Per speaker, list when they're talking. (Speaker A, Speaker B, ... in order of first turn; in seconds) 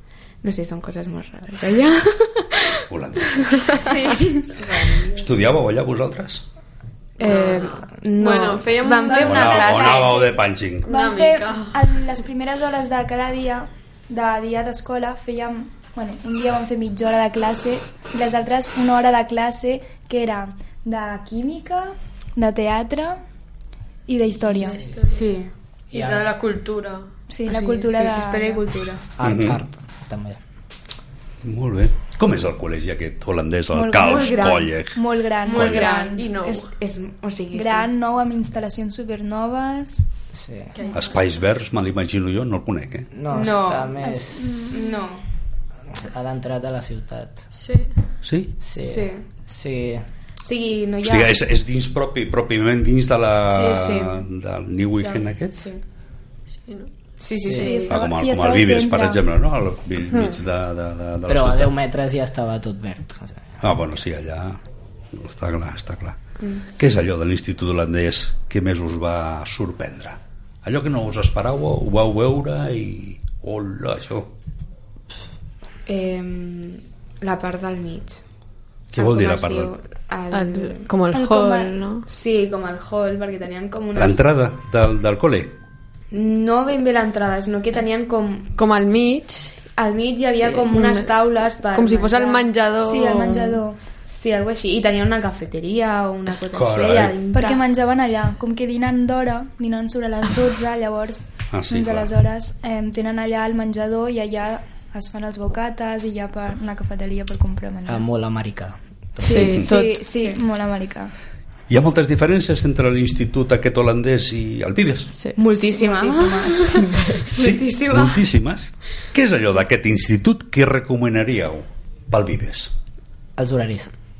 Speaker A: 0.4-2.8, 3.4-5.2, 7.2-10.3, 25.0-25.5, 27.5-29.0, 33.9-34.9, 35.4-37.9, 43.3-45.2, 48.8-49.3, 50.5-51.4, 53.5-54.2, 55.0-55.8, 57.2-58.0, 75.9-78.2, 79.0-80.9, 82.1-84.2, 86.1-88.5, 89.8-92.5, 94.1-97.7, 115.4-118.3
Speaker B: 2.9-3.8, 5.1-6.4, 9.2-10.9, 29.2-29.6, 31.4-35.9, 40.9-43.1, 48.2-48.5, 51.0-55.7, 57.9-61.7, 63.6-64.6, 65.1-74.3, 78.9-79.8, 84.0-85.5, 96.5-97.2, 101.5-102.1, 111.7-115.1, 117.4-122.7
Speaker C: 3.9-4.5, 9.0-10.3, 10.9-23.2, 24.1-24.8, 27.3-28.6, 33.7-36.3, 37.5-40.1, 44.0-45.0, 57.5-59.2, 81.1-81.8, 92.8-93.8, 97.3-108.1, 109.6-111.1, 115.6-116.8
Speaker D: 7.2-9.9, 10.8-11.9, 24.6-25.2, 25.9-27.1, 36.1-36.7, 40.8-41.1, 47.5-47.9, 80.3-82.1, 88.6-89.6, 90.4-91.2, 91.7-93.6, 109.2-110.0, 116.7-117.2
Speaker E: 25.9-26.3, 29.2-30.4, 40.3-40.7, 43.1-44.7, 45.9-47.4, 48.6-50.1, 57.5-57.8, 61.3-63.5, 107.9-109.7, 123.4-123.9